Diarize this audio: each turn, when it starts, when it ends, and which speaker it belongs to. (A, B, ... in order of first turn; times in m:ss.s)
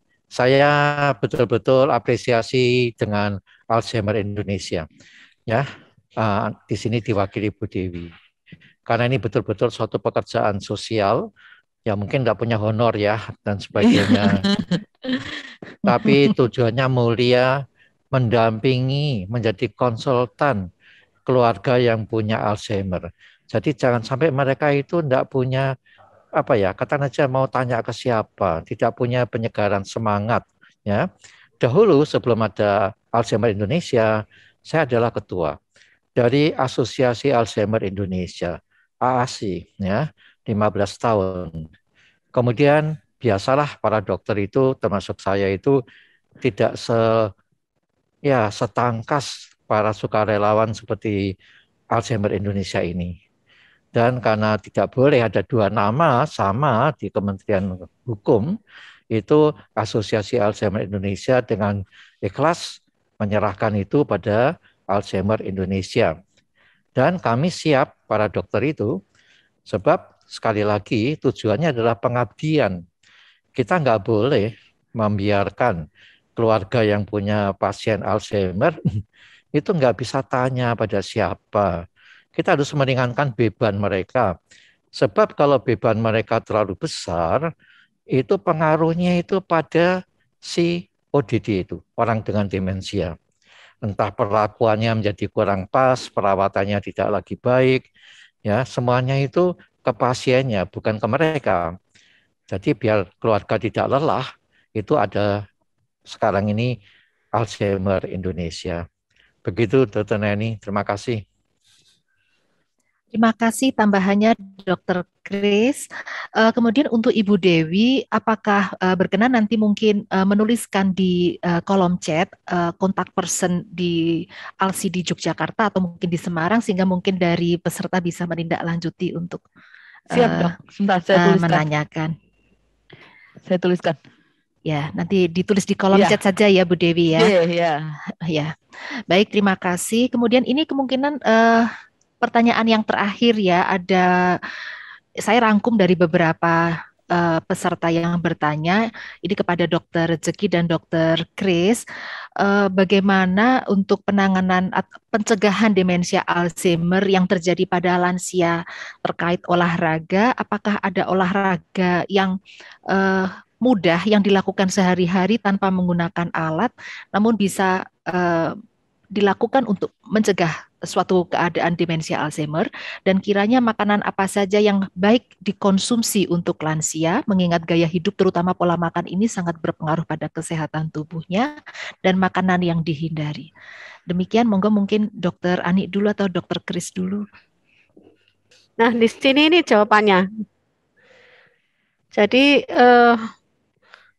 0:00.3-0:04.8 A
0:06.2-0:08.1 A
0:08.9-0:11.2 A
0:11.8-0:14.4 A
0:13.9-0:15.3 B
0:15.8-0:17.5 A
0:18.1-0:20.6 A
0:21.3-0:25.7 A
0:26.4-0:31.0 A
0:31.6-0:34.1 A
0:34.7-0:35.6 A
0:36.2-0:41.6 A
0:42.3-0:45.8 A
0:46.4-0:47.1 A
0:48.3-0:51.2 A
0:51.9-0:53.1 A
0:53.9-0:58.5 A
0:59.1-1:06.1 A
1:07.0-1:08.9 A
1:09.7-1:12.8 A
1:13.6-1:15.8 A
1:16.4-1:18.8 A
1:19.5-1:21.7 A
1:22.4-1:24.3 A
1:25.0-1:27.4 A
1:28.1-1:29.9 A
1:30.4-1:33.1 A
1:33.8-1:37.8 A
1:38.4-1:41.7 A
1:42.5-1:45.3 A
1:46.1-1:46.7 A
1:47.4-1:48.8 A
1:49.4-1:51.2 A
1:53.1-1:55.8 C
1:56.4-2:09.4 C
2:10.1-2:10.6 C
2:10.1-2:11.6 B
2:11.1-2:12.1 C
2:13.5-2:14.0 B
2:14.6-2:17.3 C
2:15.9-2:16.2 B
2:17.2-2:17.9 B
2:18.2-2:18.5 C
2:19.1-2:21.7 C
2:22.2-2:24.4 C
2:25.2-2:31.8 C
2:32.4-2:42.3 C
2:42.9-2:48.6 C
2:49.2-3:01.5 C
3:02.0-3:03.5 C
3:04.1-3:07.2 C
3:08.8-3:10.2 D
3:12.1-3:13.2 D